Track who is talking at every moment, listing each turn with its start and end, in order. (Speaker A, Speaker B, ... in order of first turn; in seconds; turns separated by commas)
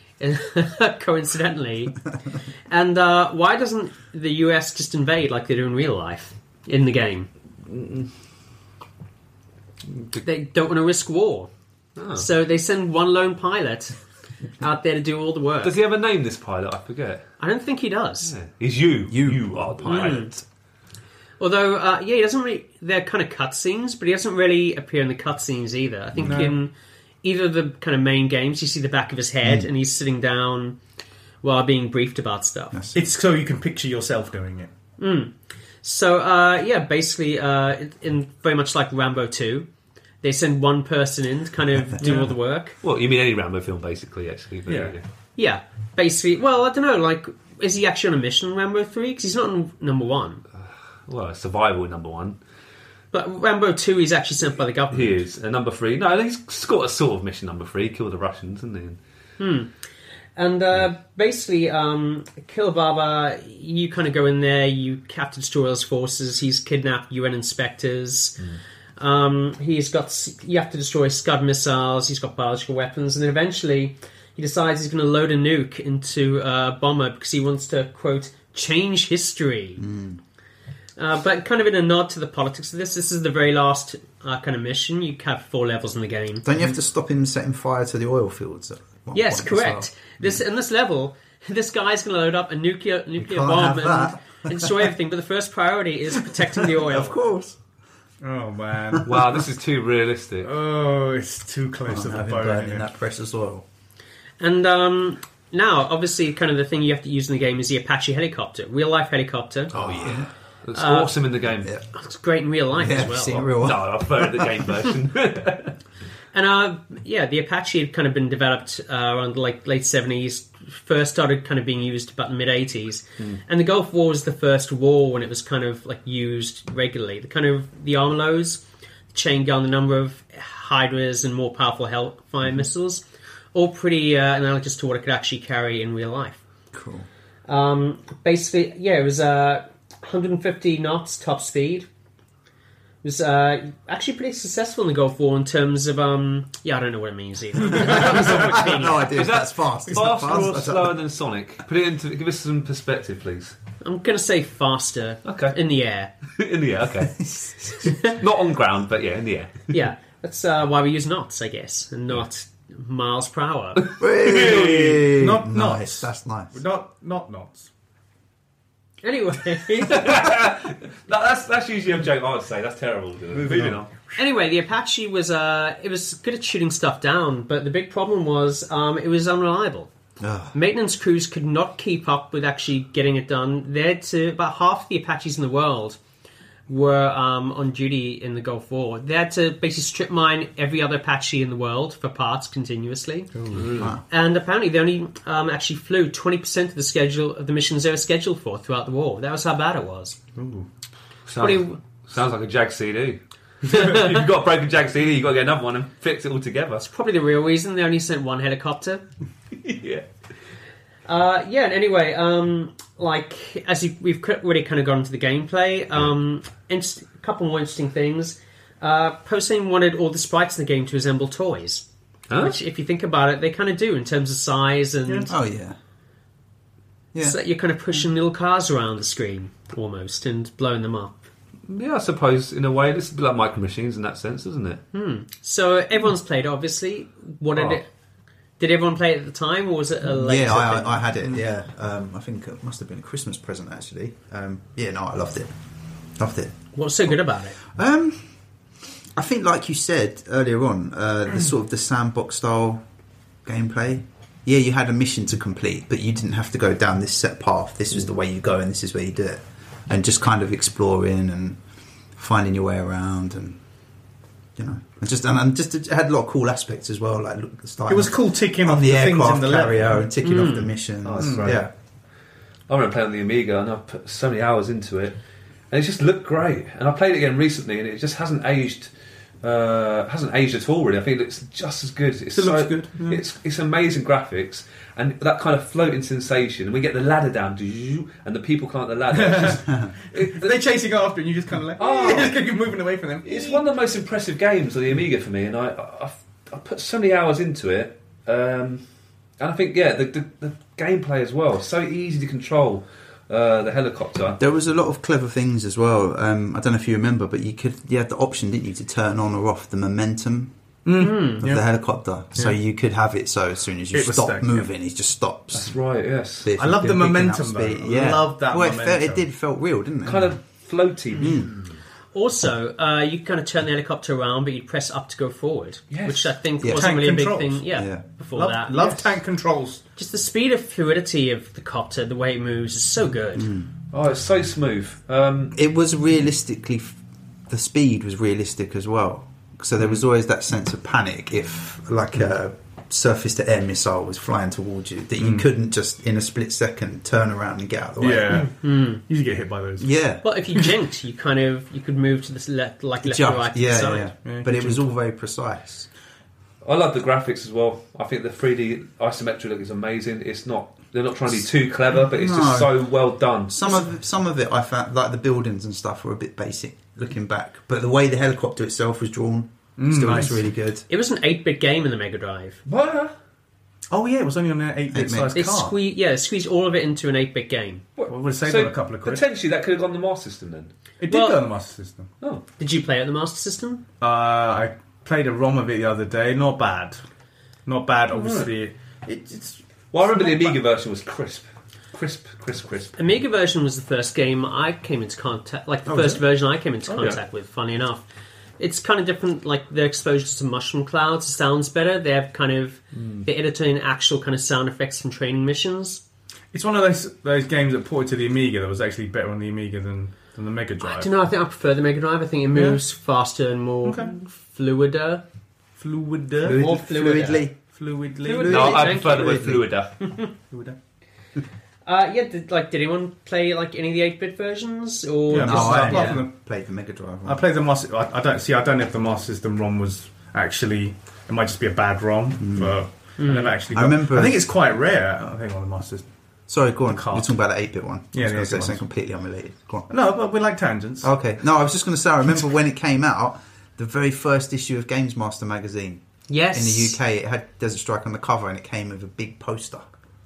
Speaker A: 0.2-2.0, Speaker A: 2.7-7.3, Speaker B: 7.7-8.1, Speaker A: 10.2-11.5, Speaker B: 12.0-12.2, Speaker A: 12.1-13.9, Speaker A: 14.6-15.8, Speaker B: 15.6-17.3, Speaker A: 17.4-18.3, Speaker B: 18.2-20.4, Speaker C: 19.1-20.1, Speaker A: 19.8-20.3, Speaker A: 21.4-30.8, Speaker D: 26.2-26.6, Speaker A: 31.4-32.8, Speaker D: 32.9-34.7, Speaker A: 35.0-39.7, Speaker A: 40.2-42.8, Speaker B: 42.8-45.0, Speaker D: 44.7-45.0, Speaker A: 45.4-50.4, Speaker B: 51.1-52.4, Speaker A: 53.1-55.2, Speaker B: 54.9-59.0, Speaker A: 59.4-59.7, Speaker A: 60.4-68.4, Speaker A: 69.0-79.8, Speaker C: 79.8-80.2, Speaker A: 81.0-86.5, Speaker C: 86.5-90.4, Speaker A: 89.1-97.2, Speaker C: 93.2-94.7, Speaker C: 96.6-97.6, Speaker D: 98.2-99.3, Speaker B: 99.0-100.5, Speaker D: 100.4-102.9, Speaker C: 101.9-103.7, Speaker A: 104.4-109.7, Speaker C: 109.7-110.3, Speaker B: 110.0-111.8, Speaker A: 110.7-111.1, Speaker A: 111.9-113.5, Speaker C: 112.7-114.5, Speaker B: 113.5-115.8, Speaker A: 116.3-136.4, Speaker C: 136.7-137.1, Speaker A: 137.5-141.9, Speaker A: 143.0-149.2, Speaker C: 147.7-151.0, Speaker B: 148.0-153.6, Speaker A: 153.8-156.1, Speaker B: 155.2-155.6, Speaker B: 156.3-159.7, Speaker A: 157.8-158.1, Speaker A: 159.7-163.9, Speaker C: 164.0-166.6, Speaker B: 164.2-164.7, Speaker D: 164.4-167.7, Speaker A: 169.0-170.3, Speaker B: 169.9-173.9, Speaker D: 173.3-173.8, Speaker A: 174.2-179.9, Speaker C: 180.2-180.5, Speaker A: 180.5-186.0, Speaker A: 186.7-193.3, Speaker D: 193.3-193.8, Speaker B: 193.5-193.9, Speaker A: 194.1-200.2, Speaker D: 200.4-200.7, Speaker B: 201.3-206.9, Speaker A: 201.4-201.8, Speaker A: 203.7-204.0, Speaker A: 206.8-209.0, Speaker B: 209.6-210.1, Speaker A: 211.1-225.3, Speaker B: 222.3-222.6, Speaker C: 225.3-225.8, Speaker A: 227.2-231.2, Speaker B: 231.7-234.8, Speaker A: 234.9-237.9, Speaker A: 238.6-241.0, Speaker C: 240.0-245.5, Speaker C: 246.2-246.7, Speaker A: 246.7-247.6, Speaker C: 247.6-248.2, Speaker C: 249.2-252.8, Speaker C: 253.4-261.6, Speaker C: 262.2-263.6, Speaker C: 264.6-271.7, Speaker D: 267.9-270.1, Speaker A: 270.2-270.8, Speaker B: 271.0-271.7, Speaker D: 271.2-271.6, Speaker B: 272.7-275.2, Speaker B: 275.7-290.6, Speaker D: 282.4-283.2, Speaker D: 289.1-293.6, Speaker B: 291.8-292.4, Speaker B: 293.2-298.8, Speaker B: 299.4-304.4, Speaker C: 304.4-310.5, Speaker D: 310.9-311.7, Speaker A: 311.0-311.4, Speaker C: 311.4-315.7, Speaker D: 313.9-314.7, Speaker B: 315.5-316.5, Speaker C: 316.4-320.4, Speaker D: 316.6-319.2, Speaker B: 320.0-321.6, Speaker C: 321.2-321.6, Speaker A: 322.1-329.1, Speaker B: 325.9-326.3, Speaker C: 326.6-326.9, Speaker D: 326.6-327.6, Speaker C: 327.7-328.0, Speaker D: 328.3-329.8, Speaker A: 330.0-333.5, Speaker B: 333.9-335.6, Speaker C: 335.5-337.0, Speaker C: 337.5-348.5, Speaker D: 345.2-345.5, Speaker D: 348.0-349.9, Speaker A: 348.6-349.0, Speaker C: 349.8-350.2, Speaker A: 350.2-354.1, Speaker C: 353.0-355.9, Speaker D: 354.2-354.8, Speaker B: 356.6-363.8, Speaker C: 362.1-362.8, Speaker C: 363.5-370.9, Speaker D: 369.8-370.4, Speaker A: 370.9-372.6, Speaker B: 372.7-373.1, Speaker D: 373.9-375.8, Speaker C: 374.9-375.4, Speaker A: 375.3-377.8, Speaker B: 378.0-380.7, Speaker D: 378.1-379.2, Speaker D: 381.0-382.1, Speaker A: 381.1-381.4, Speaker A: 382.6-383.8, Speaker D: 384.0-387.0, Speaker D: 387.6-390.6, Speaker B: 388.1-388.5, Speaker B: 389.9-393.0, Speaker A: 393.0-398.0, Speaker D: 395.9-396.2, Speaker B: 396.9-397.2, Speaker A: 398.6-406.0, Speaker B: 402.9-403.2, Speaker D: 406.5-411.1, Speaker A: 410.8-415.2, Speaker D: 412.5-412.8, Speaker D: 413.8-414.1, Speaker D: 415.8-416.6, Speaker C: 416.4-417.6, Speaker A: 416.5-417.5, Speaker D: 417.7-418.7, Speaker A: 418.2-420.3, Speaker C: 418.3-419.7, Speaker B: 418.5-420.0, Speaker D: 420.5-420.8, Speaker A: 421.9-426.2, Speaker D: 425.3-426.3, Speaker C: 425.3-427.4, Speaker D: 427.2-436.1, Speaker C: 432.4-432.8, Speaker A: 433.2-433.5, Speaker C: 433.7-434.5, Speaker C: 436.5-439.9, Speaker D: 436.9-437.3, Speaker D: 438.1-438.8, Speaker D: 439.9-441.1, Speaker C: 441.0-449.9, Speaker A: 446.3-447.0